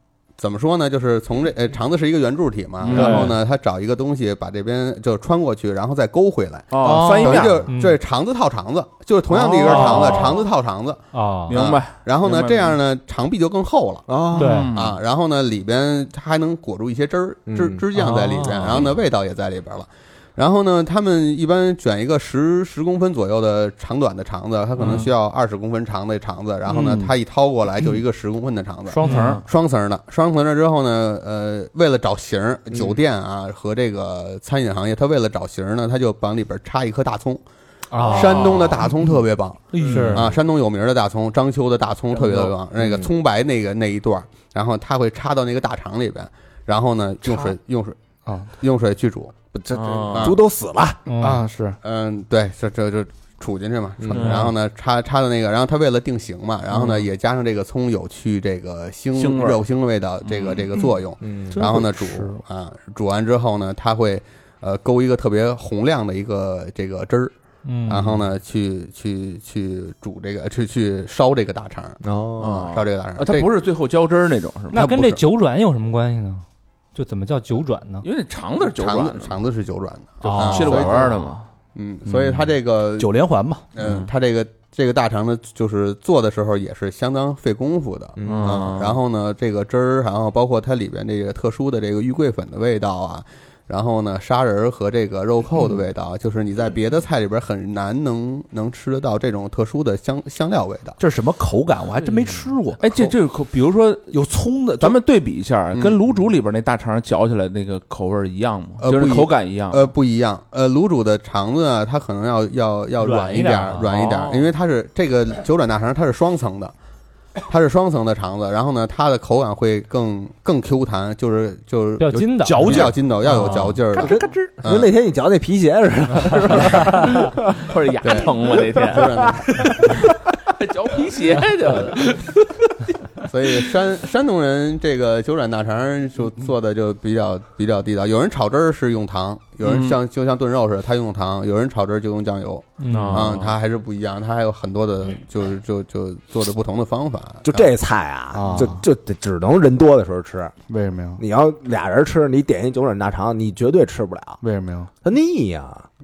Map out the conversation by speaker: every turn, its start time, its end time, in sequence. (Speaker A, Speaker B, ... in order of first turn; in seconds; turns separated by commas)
Speaker A: 0.4-14.1, Speaker B: 2.8-3.4, Speaker C: 2.9-3.3, Speaker B: 6.7-7.6, Speaker D: 6.9-7.7, Speaker C: 7.7-8.0, Speaker C: 9.6-10.4, Speaker B: 9.6-10.4, Speaker C: 11.1-11.6, Speaker B: 11.5-12.8, Speaker D: 14.1-14.7, Speaker B: 14.3-15.0, Speaker C: 14.3-14.7, Speaker A: 14.7-37.4, Speaker D: 17.5-17.9, Speaker C: 18.0-18.8, Speaker B: 24.8-25.1, Speaker B: 26.7-27.1, Speaker E: 28.9-29.4, Speaker B: 29.0-29.4, Speaker C: 29.1-29.4, Speaker D: 32.7-33.0, Speaker C: 37.9-38.7, Speaker A: 38.0-48.0, Speaker E: 38.1-38.5, Speaker E: 39.7-40.3, Speaker C: 39.8-40.3, Speaker D: 42.8-43.1, Speaker A: 48.5-49.3, Speaker D: 49.5-51.0, Speaker B: 49.7-50.4, Speaker A: 50.1-50.4, Speaker C: 51.1-51.4, Speaker E: 51.2-51.8, Speaker A: 51.8-67.3, Speaker D: 54.0-54.4, Speaker B: 54.1-54.5, Speaker B: 56.8-57.0, Speaker B: 59.1-59.6, Speaker B: 60.2-60.8, Speaker D: 61.2-61.6, Speaker E: 61.5-62.4, Speaker C: 67.6-68.2, Speaker A: 67.9-72.0, Speaker D: 72.0-72.7, Speaker B: 72.4-74.8, Speaker A: 72.5-73.5, Speaker C: 74.7-76.4, Speaker A: 74.7-75.2, Speaker C: 76.9-78.0, Speaker B: 78.0-79.4, Speaker A: 78.7-83.1, Speaker E: 80.2-80.9, Speaker B: 80.3-81.5, Speaker E: 82.1-82.5, Speaker E: 83.0-83.6, Speaker A: 83.7-101.0, Speaker B: 83.8-84.1, Speaker D: 88.2-88.8, Speaker B: 88.2-89.0, Speaker E: 101.0-103.1, Speaker B: 102.8-104.1, Speaker E: 104.1-105.0, Speaker B: 104.8-109.9, Speaker A: 108.8-116.7, Speaker C: 113.0-113.9, Speaker B: 113.9-114.5, Speaker A: 117.5-124.9, Speaker C: 122.0-123.8, Speaker E: 122.1-124.5, Speaker D: 124.0-127.5, Speaker B: 126.5-127.0, Speaker B: 127.6-129.3, Speaker A: 128.0-130.0, Speaker D: 128.9-130.0, Speaker B: 130.4-132.5, Speaker A: 133.2-147.7, Speaker B: 139.6-140.0, Speaker E: 142.8-143.2, Speaker B: 142.9-143.6, Speaker D: 147.4-150.5, Speaker E: 148.3-148.8, Speaker E: 150.7-151.2, Speaker D: 151.2-154.4, Speaker E: 154.4-154.9, Speaker D: 155.0-155.8